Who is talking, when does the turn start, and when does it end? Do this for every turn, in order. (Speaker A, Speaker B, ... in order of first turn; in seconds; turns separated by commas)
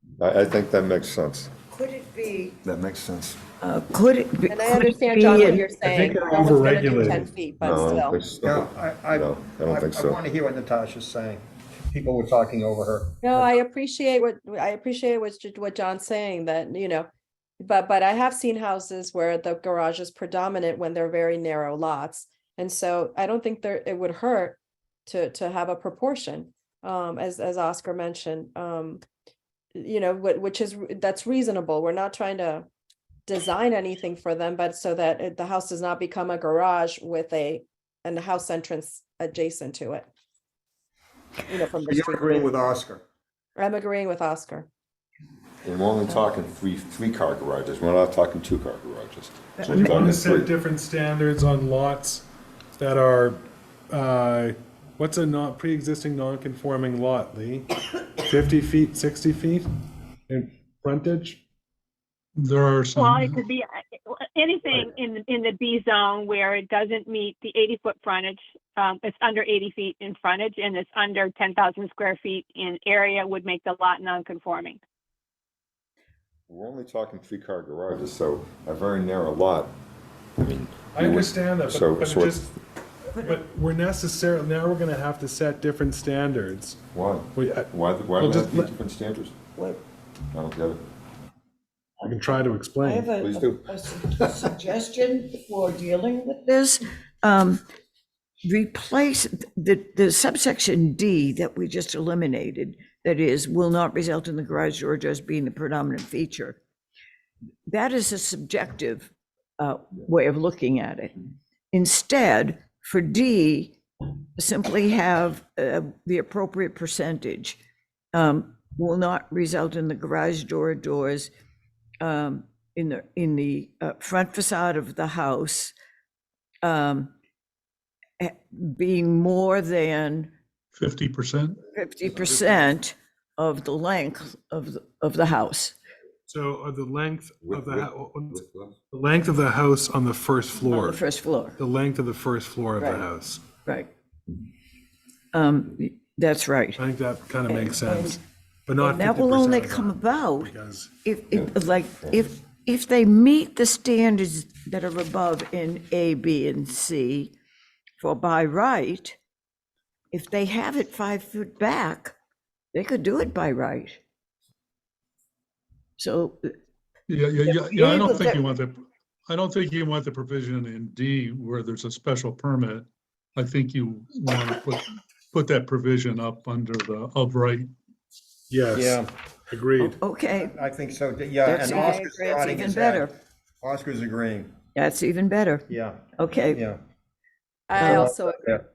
Speaker A: 0.2-1.5, Speaker B: 1.7-2.6, Speaker A: 2.6-3.4, Speaker B: 3.6-6.0, Speaker C: 4.5-8.2, Speaker D: 5.8-7.3, Speaker A: 7.6-10.2, Speaker E: 8.4-13.4, Speaker C: 13.2-17.1, Speaker C: 17.6-29.0, Speaker C: 29.8-32.7, Speaker C: 33.3-40.1, Speaker C: 41.5-42.6, Speaker E: 41.8-43.0, Speaker C: 43.6-44.7, Speaker A: 45.6-50.5, Speaker B: 49.6-50.1, Speaker D: 49.7-57.7, Speaker D: 58.2-59.7, Speaker D: 60.3-61.4, Speaker F: 62.4-63.4, Speaker G: 63.0-74.8, Speaker A: 76.5-79.7, Speaker A: 80.4-82.4, Speaker D: 81.0-82.6, Speaker D: 83.2-86.8, Speaker A: 86.9-89.3, Speaker D: 87.3-88.7, Speaker A: 90.3-90.8, Speaker D: 92.0-93.1, Speaker B: 92.8-97.6, Speaker A: 93.2-93.7, Speaker B: 98.4-106.6, Speaker B: 107.7-111.2, Speaker B: 111.7-113.8, Speaker B: 114.4-117.6, Speaker B: 118.1-121.3, Speaker B: 122.0-125.7, Speaker B: 126.6-127.1, Speaker B: 128.2-130.3, Speaker F: 130.8-131.6, Speaker B: 131.7-135.8, Speaker D: 136.3-141.0, Speaker A: 137.4-138.7, Speaker B: 140.6-141.6, Speaker D: 141.6-143.4, Speaker B: 142.8-143.1, Speaker B: 143.7-143.9, Speaker B: 145.3-146.8, Speaker D: 146.8-150.9, Speaker B: 147.5-148.2, Speaker B: 148.8-157.3, Speaker B: 158.0-159.2, Speaker B: 160.1-162.2, Speaker B: 162.7-164.0, Speaker B: 166.0-166.5, Speaker F: 167.1-168.8, Speaker B: 167.4-168.4, Speaker F: 169.3-177.7, Speaker D: 178.5-180.0, Speaker E: 178.7-179.1, Speaker B: 179.8-180.6, Speaker E: 180.4-183.1, Speaker B: 181.4-183.2, Speaker E: 183.6-184.5, Speaker B: 184.8-186.6, Speaker E: 185.7-186.8, Speaker C: 187.7-188.4, Speaker B: 187.8-188.1, Speaker E: 187.8-188.6